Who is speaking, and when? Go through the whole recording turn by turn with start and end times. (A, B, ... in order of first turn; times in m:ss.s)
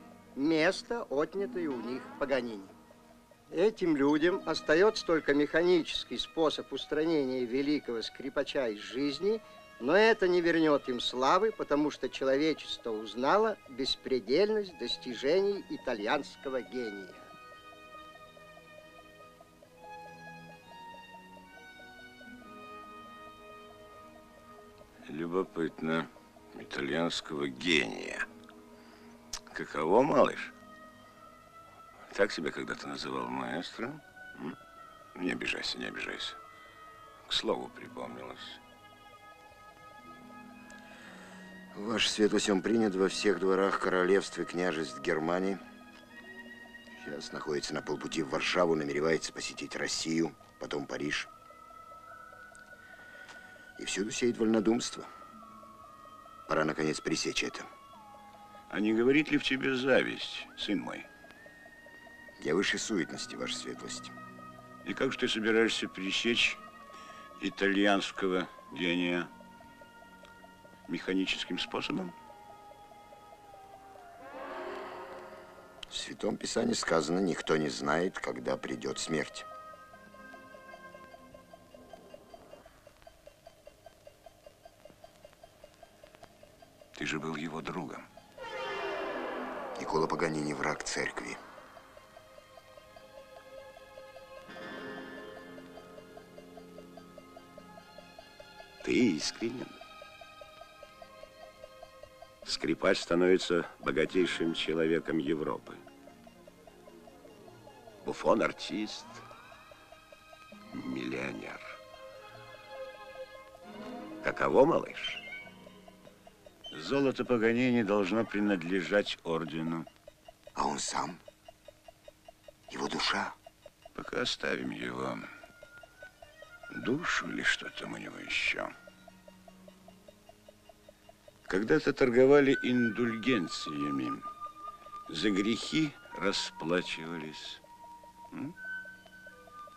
0:00.4-0:02.7 A
0:03.5-0:17.3 A
0:25.1-0:28.2 B
0:29.5-0:30.5 B
0:32.1-0:34.0 B
0:35.2-0:36.4 B
0:37.3-0:38.6 B
0:41.7-0:45.6 C
0:47.0-0:51.3 C
0:53.8-0:55.1 C
0:56.5-0:57.7 C
0:58.7-1:01.1 B
1:02.4-1:04.1 C
1:04.8-1:06.6 B
1:07.4-1:09.3 B
1:10.9-1:12.1 B
1:15.9-1:19.4 C
1:27.0-1:28.0 B
1:29.8-1:31.4 C
1:38.8-1:39.8 B
1:42.4-1:45.8 B
1:48.0-1:49.2 B
1:50.7-1:51.7 B
1:54.2-1:55.2 B
1:56.7-1:59.9 B
2:00.6-2:01.2 C
2:02.7-2:03.3 C
2:03.9-2:05.2 B
2:06.7-2:08.7 B
2:11.5-2:14.2 B
2:15.1-2:17.6 B